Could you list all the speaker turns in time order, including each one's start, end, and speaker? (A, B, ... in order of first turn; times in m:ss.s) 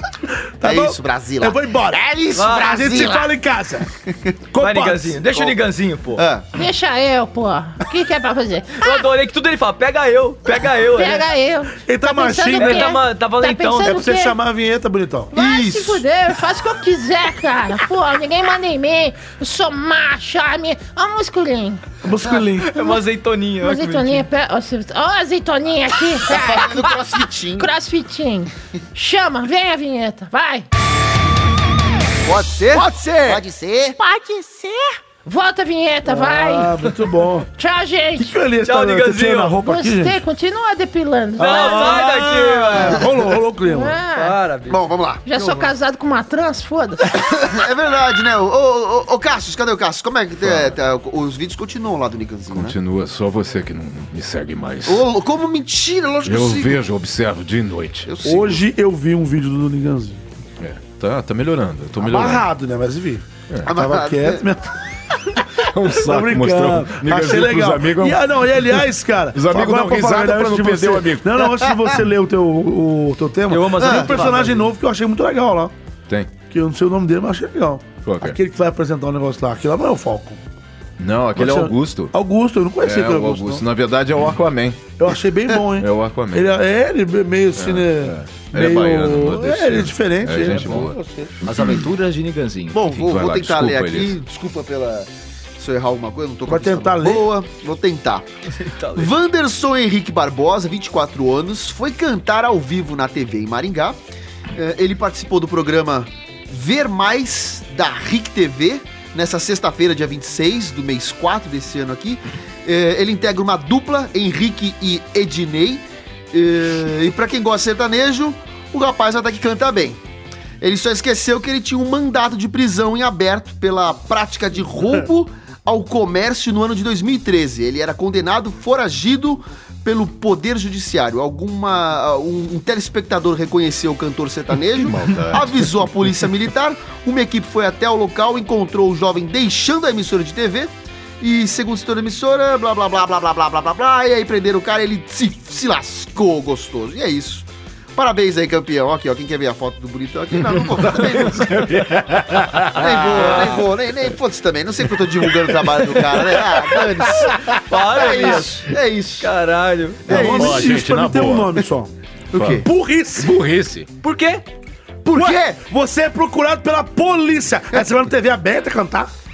0:00.3-0:03.9 A
0:00.6-0:03.3 B
0:02.3-0:03.2 C
0:04.1-0:04.3 B
0:04.5-0:05.2 A
0:04.6-0:06.2 C
0:05.3-0:05.6 B
0:06.2-0:06.5 B
0:06.5-0:09.1 D
0:08.8-0:11.2 C
0:10.8-0:14.4 D
0:11.8-0:12.9 A
0:12.5-0:14.0 C
0:13.8-0:15.3 A
0:15.3-0:21.9 D
0:15.4-0:16.0 B
0:22.0-0:22.7 A
0:22.2-0:24.3 C
0:22.8-0:23.0 D
0:23.6-0:30.6 D
0:26.3-0:27.7 B
0:32.2-0:33.5 B
0:33.5-0:36.8 D
0:36.0-0:37.5 A
0:37.5-0:38.4 D
0:38.2-0:40.2 A
0:38.6-0:39.6 C
0:39.6-0:42.3 D
0:41.4-0:44.0 A
0:41.4-0:43.1 C
0:42.7-0:43.1 B
0:43.6-0:44.4 D
0:44.1-0:45.7 C
0:44.7-0:45.2 B
0:45.2-0:47.2 D
0:47.2-0:52.8 B
0:50.4-0:50.7 E
0:52.5-0:55.0 E
0:54.8-0:56.8 B
0:56.2-0:58.1 E
0:58.0-0:58.6 B
0:58.2-1:00.2 A
1:00.6-1:02.4 E
1:02.0-1:04.8 A
1:03.6-1:04.4 B
1:05.6-1:08.2 E
1:05.9-1:15.7 A
1:09.3-1:11.4 E
1:11.6-1:11.9 B
1:13.5-1:14.7 C
1:13.8-1:14.4 B
1:16.5-1:20.4 A
1:18.0-1:18.4 E
1:21.0-1:22.1 E
1:21.3-1:23.6 A
1:22.8-1:24.9 E
1:25.0-1:31.4 A
1:25.7-1:26.5 E
1:27.6-1:31.8 E
1:30.4-1:30.9 C
1:31.4-1:32.8 C
1:32.7-1:38.2 B
1:32.8-1:34.2 E
1:36.4-1:37.3 A
1:38.5-1:39.1 C
1:38.9-1:44.0 B
1:44.5-2:00.0 B
2:00.6-2:31.8 B
2:14.8-2:15.7 E
2:30.4-2:33.6 E
2:32.8-2:39.3 B
2:32.8-2:33.6 C
2:35.1-2:37.6 E
2:37.5-2:38.7 C
2:39.2-2:40.5 C
2:40.1-2:41.6 E
2:40.1-2:41.9 A
2:40.1-2:40.6 B
2:42.3-2:42.6 B
2:42.4-2:42.6 E
2:42.4-2:43.4 A
2:43.2-2:43.9 E
2:44.0-2:44.4 C
2:45.0-2:45.6 B
2:45.2-2:49.1 A